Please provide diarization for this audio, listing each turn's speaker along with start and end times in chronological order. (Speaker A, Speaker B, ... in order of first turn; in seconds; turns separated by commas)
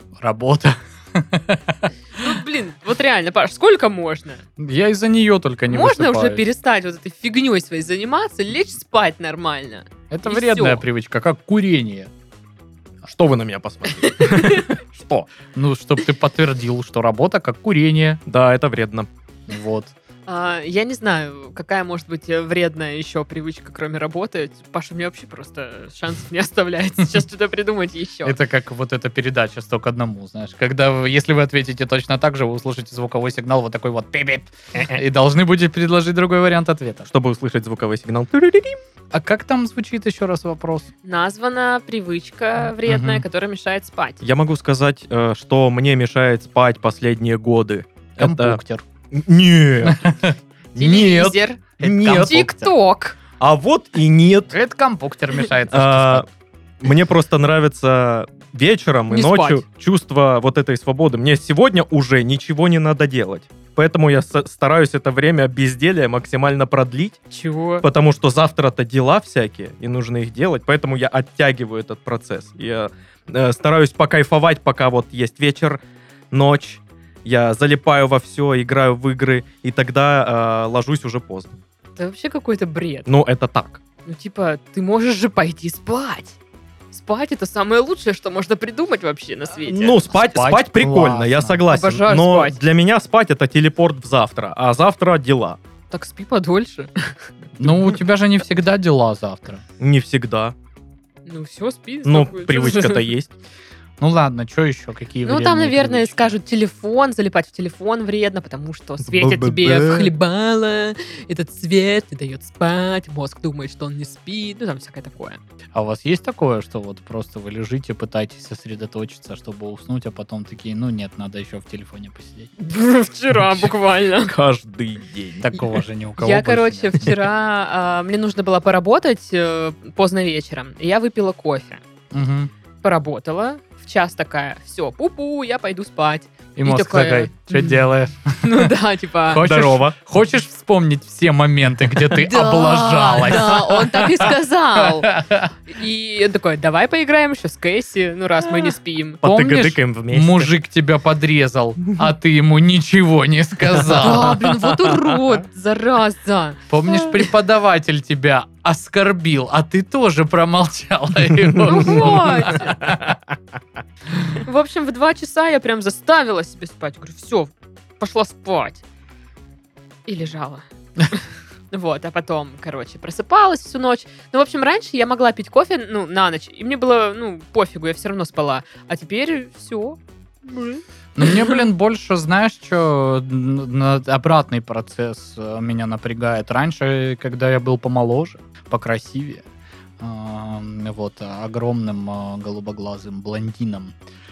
Speaker A: 0.2-2.3, Speaker B: 2.1-4.4, Speaker A: 4.6-6.4, Speaker B: 5.7-10.8, Speaker A: 10.1-12.1, Speaker C: 13.1-14.7, Speaker B: 14.0-14.7, Speaker A: 14.9-18.2, Speaker C: 18.3-19.1, Speaker A: 19.5-19.9, Speaker B: 20.3-28.4, Speaker A: 28.2-37.1, Speaker C: 37.1-38.8, Speaker A: 39.1-40.9, Speaker B: 41.0-44.2, Speaker A: 42.8-43.2, Speaker C: 44.2-48.6, Speaker A: 48.2-48.8, Speaker C: 49.1-50.1, Speaker A: 49.8-50.3, Speaker B: 50.7-53.2, Speaker C: 50.8-52.6, Speaker A: 51.8-52.5, Speaker C: 53.4-54.5, Speaker A: 54.5-56.3, Speaker C: 55.7-56.2, Speaker C: 56.8-67.2, Speaker B: 59.1-59.6, Speaker B: 67.3-67.8, Speaker C: 67.8-81.6, Speaker B: 82.0-83.1, Speaker C: 83.1-83.8, Speaker B: 84.0-86.4, Speaker B: 86.9-90.0, Speaker C: 89.6-95.6, Speaker A: 90.1-91.6, Speaker B: 91.7-92.6, Speaker B: 95.9-97.3, Speaker A: 97.6-99.6, Speaker C: 99.8-100.5, Speaker B: 101.2-103.0, Speaker C: 102.0-103.3, Speaker A: 104.0-106.3, Speaker B: 105.2-115.4, Speaker C: 109.0-110.1, Speaker A: 115.7-122.5, Speaker B: 122.6-124.3, Speaker C: 124.2-125.5, Speaker A: 125.4-127.1, Speaker B: 126.2-131.8, Speaker A: 132.1-132.5, Speaker B: 132.8-137.8, Speaker A: 136.6-138.7, Speaker B: 138.4-139.4, Speaker A: 139.3-145.5, Speaker C: 139.4-139.9, Speaker B: 142.1-149.2, Speaker C: 149.2-150.6, Speaker A: 149.2-154.4, Speaker C: 153.8-154.9, Speaker B: 154.0-157.2, Speaker A: 156.7-162.9, Speaker B: 161.6-162.9, Speaker B: 164.4-168.8, Speaker B: 170.1-181.6, Speaker A: 181.2-189.4, Speaker A: 190.0-193.9